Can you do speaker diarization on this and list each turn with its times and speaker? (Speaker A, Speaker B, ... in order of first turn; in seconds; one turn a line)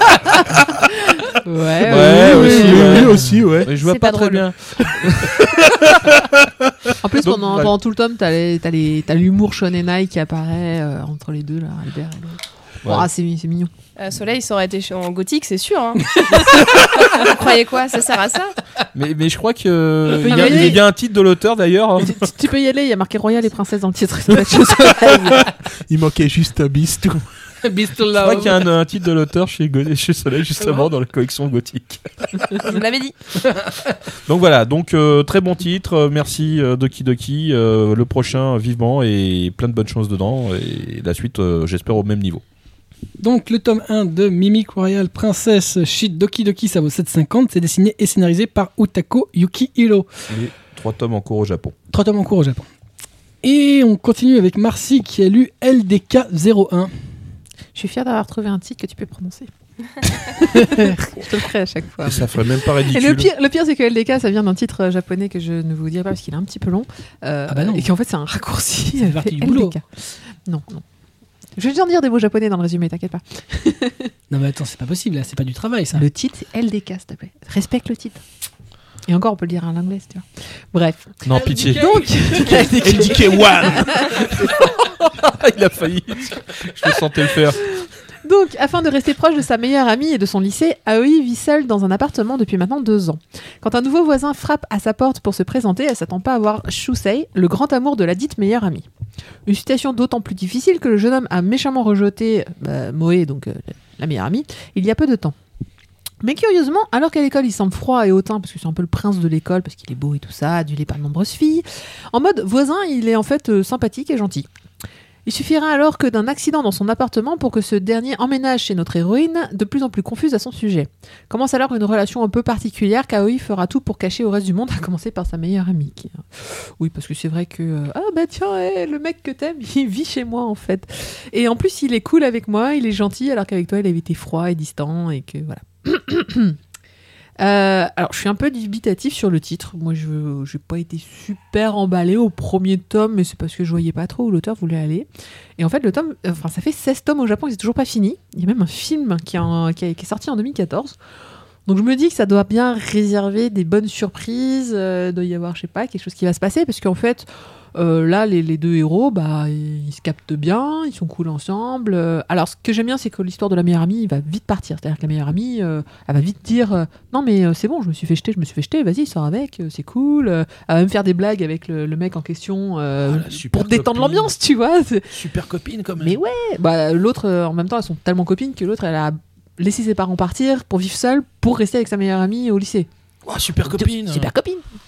Speaker A: 0.3-3.2
Speaker B: 1.8-6.2
Speaker C: 1.9-3.7
Speaker A: 3.9-4.2
Speaker D: 4.1-4.4
Speaker A: 7.0-13.7
Speaker B: 7.2-7.7
Speaker D: 14.0-18.6
Speaker B: 18.9-22.3
Speaker A: 20.2-20.8
Speaker A: 22.0-25.5
Speaker C: 25.4-27.2
Speaker E: 27.6-28.6
Speaker B: 28.1-32.7
Speaker D: 32.6-33.1
Speaker E: 33.4-33.9
Speaker B: 34.2-42.4
Speaker E: 43.2-50.1
Speaker B: 50.3-51.7
Speaker E: 51.9-52.6
Speaker E: 53.4-56.9
Speaker A: 57.7-59.5
Speaker A: 60.0-70.8
Speaker B: 62.0-63.3
Speaker E: 67.5-67.9
Speaker E: 69.0-69.8
Speaker A: 71.6-74.1
Speaker E: 74.3-76.0
Speaker A: 75.9-78.2
Speaker A: 79.1-84.8
Speaker B: 81.2-82.0
Speaker E: 81.4-82.9
Speaker C: 82.7-84.1
Speaker B: 84.2-87.6
Speaker A: 87.5-98.8
Speaker A: 99.5-105.3
Speaker A: 106.2-114.5
Speaker A: 115.2-136.6
Speaker A: 137.4-151.0
Speaker A: 151.7-175.1
Speaker B: 173.0-174.3
Speaker B: 175.1-176.2
Speaker A: 176.0-182.9
Speaker B: 183.2-184.3
Speaker A: 183.6-184.6